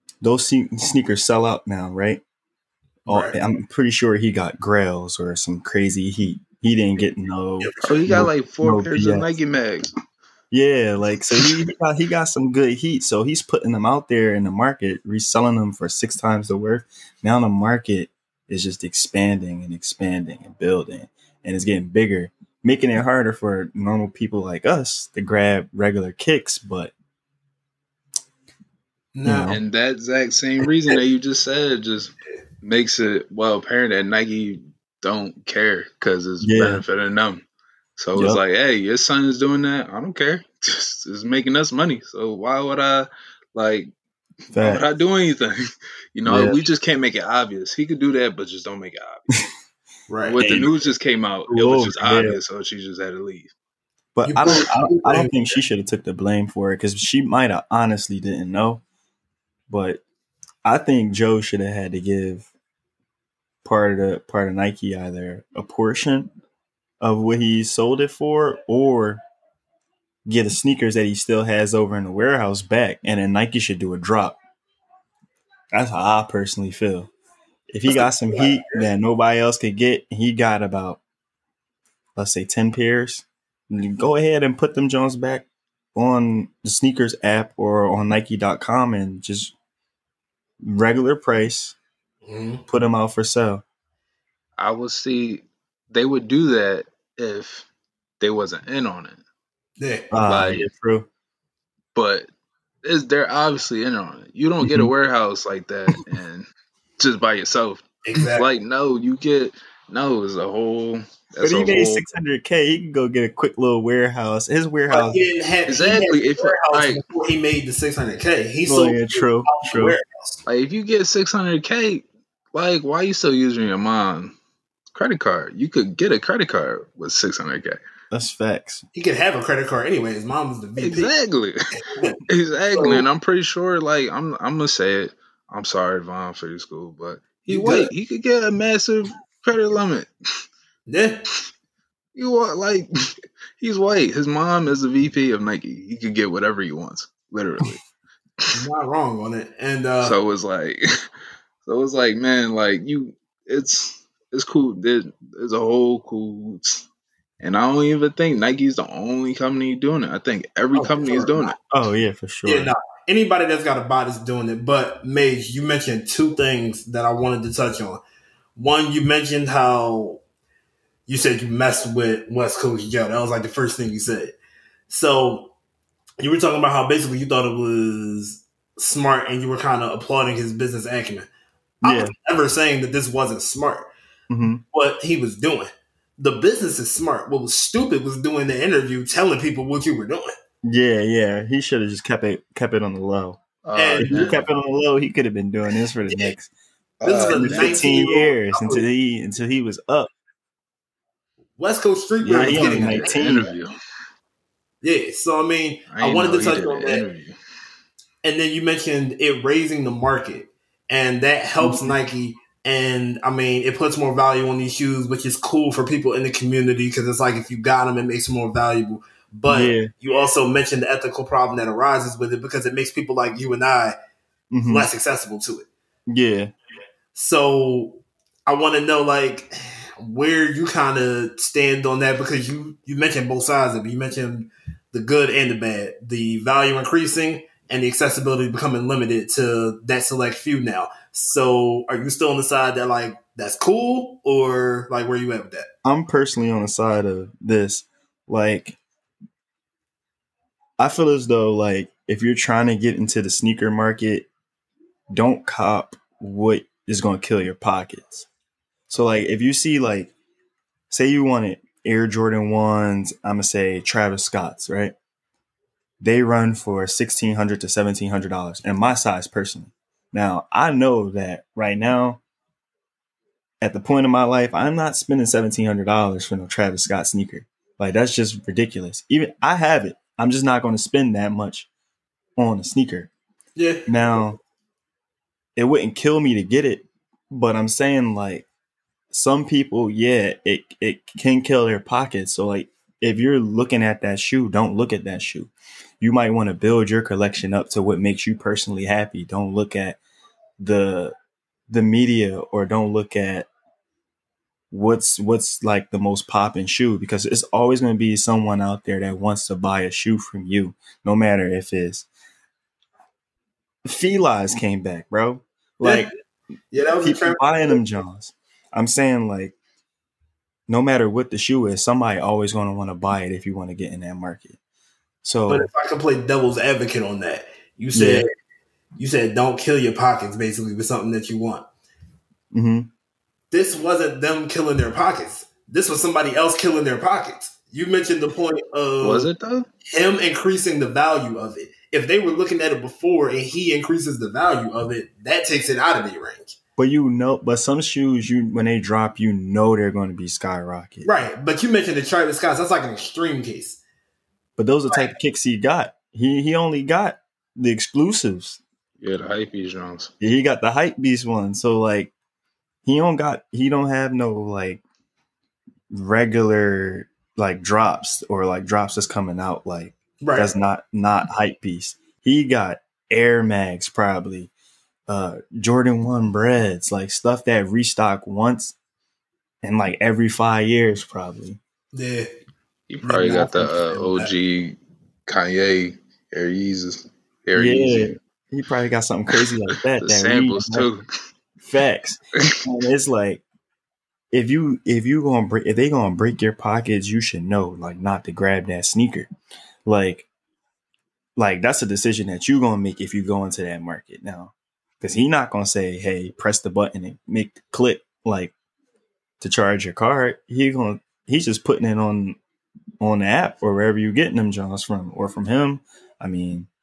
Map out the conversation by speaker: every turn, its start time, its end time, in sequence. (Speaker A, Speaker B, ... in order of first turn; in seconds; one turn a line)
Speaker A: 0.2-2.2
Speaker A: 3.0-9.3
Speaker B: 3.1-3.4
Speaker B: 7.6-8.0
Speaker C: 7.8-9.9
Speaker A: 10.5-26.9
Speaker B: 29.1-29.6
Speaker A: 29.2-29.6
Speaker C: 29.5-37.4
Speaker A: 36.4-36.8
Speaker C: 38.0-43.9
Speaker A: 38.1-38.4
Speaker A: 44.5-44.8
Speaker C: 44.6-45.6
Speaker C: 46.1-49.3
Speaker A: 46.2-46.6
Speaker B: 50.1-50.4
Speaker C: 50.2-53.5
Speaker A: 50.4-50.8
Speaker A: 51.5-52.4
Speaker A: 54.1-58.8
Speaker B: 54.2-55.5
Speaker A: 59.7-60.0
Speaker A: 60.6-62.5
Speaker A: 63.6-66.3
Speaker A: 67.0-69.2
Speaker A: 70.2-74.4
Speaker A: 75.7-77.1
Speaker A: 77.7-81.0
Speaker B: 77.9-78.8
Speaker A: 82.2-89.5
Speaker A: 90.6-91.8
Speaker B: 92.2-92.6
Speaker A: 92.7-93.6
Speaker C: 94.6-97.7
Speaker C: 98.2-99.2
Speaker B: 99.8-100.1
Speaker A: 100.1-101.1
Speaker C: 100.3-100.7
Speaker C: 101.9-102.3
Speaker C: 102.8-106.5
Speaker A: 104.6-104.9
Speaker C: 107.0-112.0
Speaker B: 108.0-108.5
Speaker A: 111.4-115.2
Speaker B: 114.9-120.4
Speaker C: 115.7-117.0
Speaker A: 118.7-120.0
Speaker C: 120.5-124.3
Speaker C: 124.9-127.8
Speaker A: 128.1-128.8
Speaker B: 128.9-131.1
Speaker C: 130.8-131.6
Speaker C: 132.3-140.1
Speaker B: 132.7-133.1
Speaker B: 137.5-137.9
Speaker B: 140.9-141.2
Speaker C: 142.1-142.9
Speaker C: 143.6-147.8
Speaker B: 148.5-150.2
Speaker C: 150.0-150.8
Speaker C: 151.6-156.8
Speaker C: 157.4-161.6
Speaker B: 160.7-161.6
Speaker A: 161.7-162.7
Speaker B: 162.4-168.0
Speaker B: 168.6-170.2
Speaker B: 171.1-174.3
Speaker B: 174.9-175.5
Speaker B: 176.2-181.3
Speaker B: 181.8-183.9
Speaker A: 181.8-182.1
Speaker A: 184.3-184.6
Speaker B: 184.7-190.3
Speaker A: 190.6-193.4
Speaker C: 193.6-194.5
Speaker B: 193.7-194.3
Speaker A: 194.0-196.5
Speaker C: 197.0-197.8
Speaker B: 197.0-198.8
Speaker A: 197.3-200.1
Speaker B: 201.6-203.2
Speaker A: 202.2-203.5
Speaker C: 202.3-203.7
Speaker B: 204.8-207.0
Speaker C: 205.9-207.3
Speaker B: 208.2-223.9
Speaker A: 211.6-211.9
Speaker A: 219.5-219.9
Speaker A: 224.5-224.9
Speaker B: 224.7-225.7
Speaker A: 226.1-226.5
Speaker B: 227.1-245.7
Speaker A: 245.8-248.8
Speaker A: 250.8-254.3
Speaker A: 255.1-258.3
Speaker A: 258.9-260.1
Speaker A: 260.9-264.9
Speaker A: 266.0-272.2
Speaker A: 273.6-281.7
Speaker A: 282.4-283.1
Speaker B: 283.6-284.2
Speaker A: 283.9-284.4
Speaker A: 285.6-288.4
Speaker A: 289.1-300.0
Speaker A: 300.6-301.1
Speaker A: 301.7-303.5
Speaker A: 304.7-312.1
Speaker A: 313.8-316.1
Speaker B: 315.8-316.1
Speaker B: 316.7-317.8
Speaker A: 317.0-319.6
Speaker A: 320.7-324.6
Speaker A: 325.2-325.7
Speaker B: 325.5-328.3
Speaker A: 327.9-328.2
Speaker B: 329.0-331.6
Speaker A: 332.5-332.9
Speaker B: 333.5-339.3
Speaker C: 339.0-339.7
Speaker B: 339.9-346.5
Speaker A: 346.8-351.1
Speaker B: 351.0-353.8
Speaker A: 354.6-358.6
Speaker C: 359.0-360.1
Speaker A: 360.2-362.1
Speaker A: 362.8-364.8
Speaker A: 365.9-374.5
Speaker B: 370.2-370.5
Speaker A: 375.1-378.8
Speaker A: 379.6-381.6
Speaker B: 381.9-382.3
Speaker C: 382.9-388.1
Speaker B: 383.0-384.3
Speaker A: 387.6-390.9
Speaker C: 390.0-391.1
Speaker A: 391.6-393.4
Speaker A: 394.3-399.3
Speaker A: 399.9-400.3
Speaker A: 401.4-408.5
Speaker A: 409.4-412.4
Speaker A: 413.0-416.7